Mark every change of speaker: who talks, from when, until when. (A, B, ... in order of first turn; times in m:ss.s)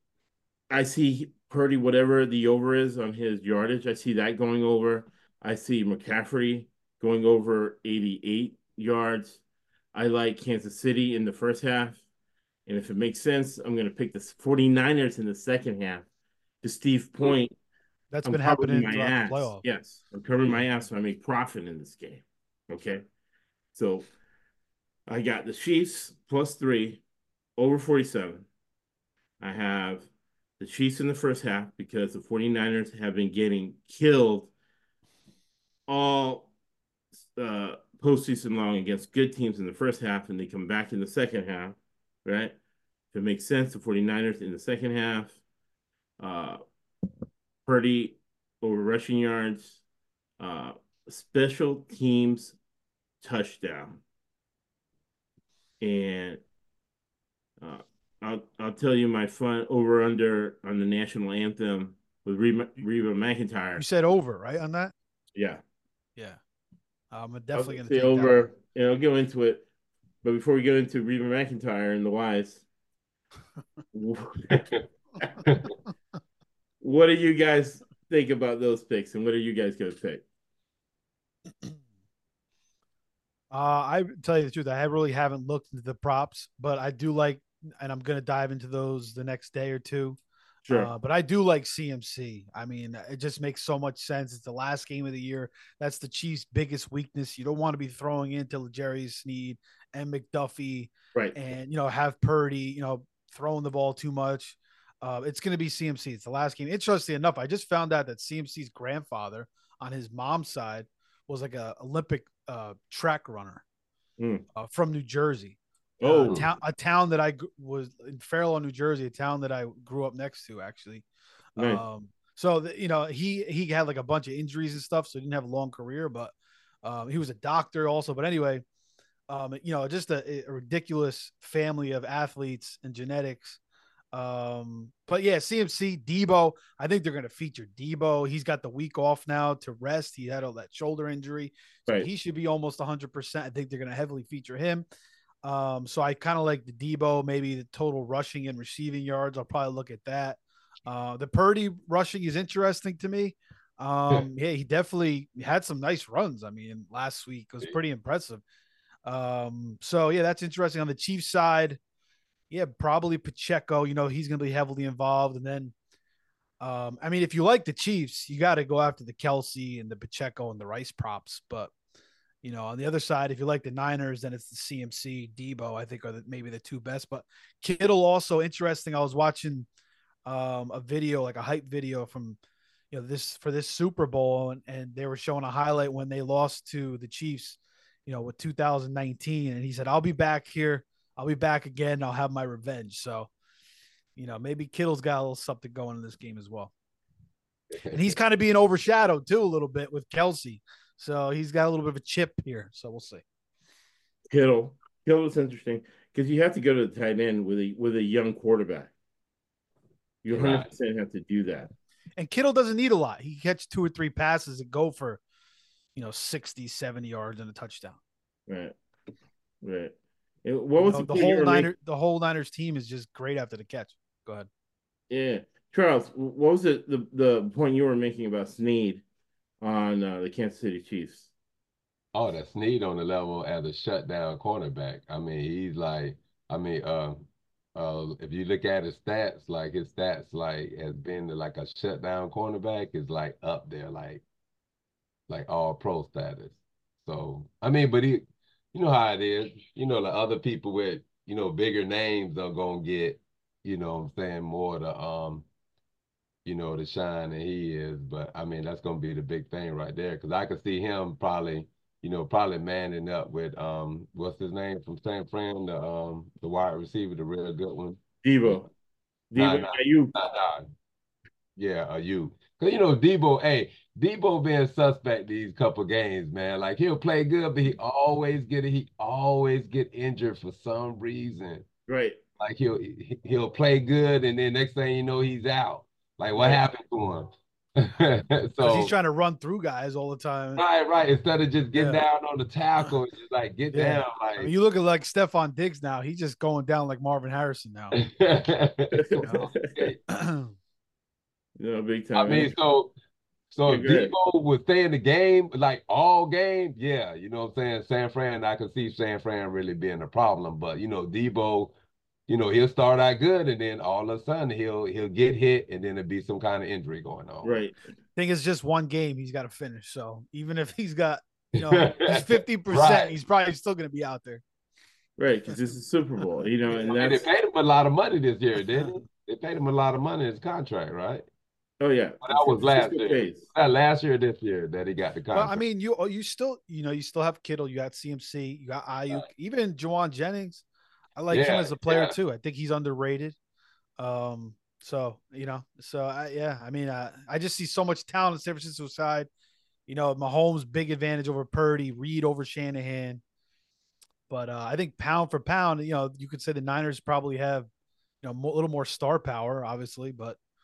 0:00.7-0:09.4 A
0:09.9-0:12.0 A
0:12.7-0:16.1 A
0:16.6-0:17.6 A
0:18.1-0:19.6 B
0:18.2-0:23.0 A
0:23.7-0:24.1 A
0:25.1-0:27.0 A
0:27.6-0:28.5 A
0:29.4-0:30.1 A
0:30.6-0:34.5 A
0:35.9-0:36.5 A
0:37.4-0:42.6 A
0:43.1-0:45.4 A
0:46.2-0:46.6 A
0:47.7-0:49.8 A
0:50.4-0:52.6 A
0:53.2-0:54.0 A
0:55.8-0:56.4 A
0:57.6-1:03.8 A
1:03.8-1:04.9 B
1:05.4-1:05.6 A
1:07.1-1:08.5 B
1:07.6-1:09.6 A
1:10.2-1:12.6 A
1:13.9-1:15.4 A
1:15.4-1:15.7 C
1:16.8-1:20.2 A
1:23.5-1:30.2 B
1:30.7-1:30.9 A
1:30.7-1:53.6 B
1:54.2-1:54.4 A
1:54.6-2:08.6 B
1:56.0-1:56.4 A
1:56.2-1:56.5 C
2:01.6-2:01.8 A
2:09.3-2:13.6 B
2:14.1-2:24.9 B
2:25.4-2:38.4 B
2:39.0-2:41.8 B
2:42.5-2:45.7 B
2:46.6-2:51.7 B
2:52.4-2:59.7 B
3:00.2-3:02.4 B
3:02.9-3:13.3 B
3:14.2-3:16.7 B
3:17.7-3:18.2 C
3:17.9-3:23.2 B
3:24.3-3:28.9 A
3:30.2-3:31.7 A
3:30.3-3:30.7 C
3:32.2-3:35.2 B
3:36.0-3:38.0 B
3:38.5-3:38.7 A
3:39.6-3:39.9 A
3:40.4-3:41.7 A
3:40.8-3:44.5 B
3:45.1-3:49.0 A
3:49.6-3:51.3 A
3:52.1-4:04.2 C
4:05.3-4:15.5 C
4:16.4-4:28.6 C
4:28.2-4:28.7 A
4:29.3-4:30.1 A
4:29.4-4:30.7 C
4:31.6-4:41.7 C
4:41.9-4:42.2 A
4:42.4-4:48.9 C
4:46.4-4:46.6 A
4:48.6-4:50.6 B
4:50.6-4:54.5 C
4:51.7-4:52.0 B
4:53.7-4:58.0 B
4:58.0-5:00.0 C
4:59.0-4:59.7 A
4:59.2-4:59.5 B
5:00.1-5:00.5 B
5:01.6-5:02.5 A
5:02.2-5:02.9 C
5:03.5-5:11.7 C
5:03.7-5:04.1 A
5:12.3-5:17.6 C
5:17.4-5:17.8 A
5:18.2-5:24.4 B
5:21.6-5:23.2 C
5:25.2-5:27.3 A
5:26.8-5:31.3 C
5:31.8-5:33.5 A
5:32.2-5:35.6 C
5:35.3-5:40.6 B
5:41.2-5:43.4 B
5:41.3-5:42.2 C
5:44.0-5:49.3 B
5:49.9-5:53.2 B
5:54.3-5:57.7 B
5:58.2-6:00.4 B